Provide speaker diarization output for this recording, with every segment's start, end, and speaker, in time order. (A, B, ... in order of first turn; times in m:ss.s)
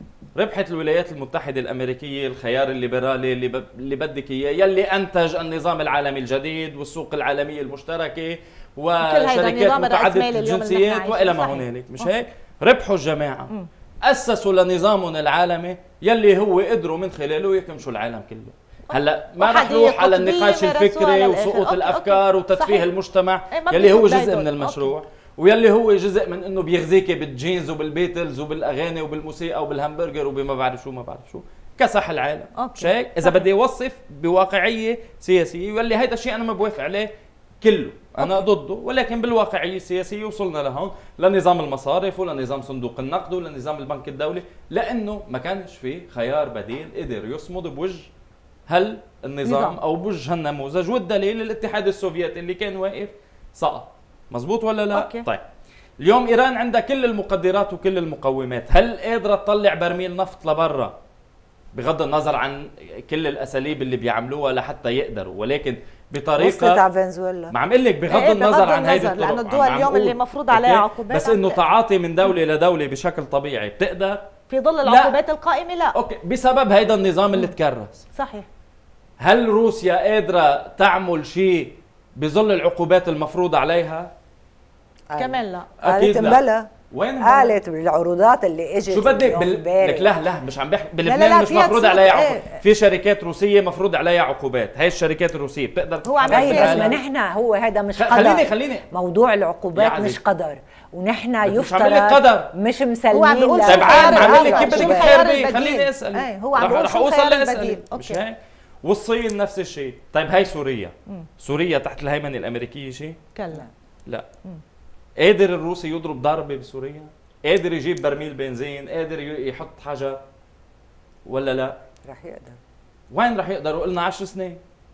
0:00.3-0:13.5 A
0:09.0-0:12.1 B
0:14.0-0:37.1 A
0:18.9-0:22.8 B
0:23.5-0:25.0 B
0:32.6-0:33.4 B
0:37.6-0:48.1 A
0:48.7-0:55.4 A
0:49.4-0:49.8 B
0:54.9-0:55.2 B
0:56.0-1:01.0 A
1:01.7-1:06.8 A
1:06.4-1:07.5 C
1:07.5-1:14.3 A
1:08.1-1:11.6 B
1:14.5-1:16.0 B
1:14.8-1:15.2 A
1:15.9-1:18.0 A
1:18.1-1:18.4 B
1:19.2-1:24.1 A
1:25.1-1:26.5 C
1:25.2-1:26.6 B
1:25.8-1:27.6 A
1:27.2-1:30.1 C
1:28.9-1:37.0 A
1:31.0-1:32.6 B
1:36.0-1:36.9 B
1:36.3-1:45.3 C
1:38.0-1:38.8 A
1:39.7-1:40.2 A
1:41.4-1:42.5 A
1:43.1-1:48.2 B
1:43.6-1:53.2 A
1:53.3-1:53.6 B
1:55.2-2:00.2 A
2:01.2-2:01.7 A
2:02.0-2:02.6 C
2:03.1-2:04.6 A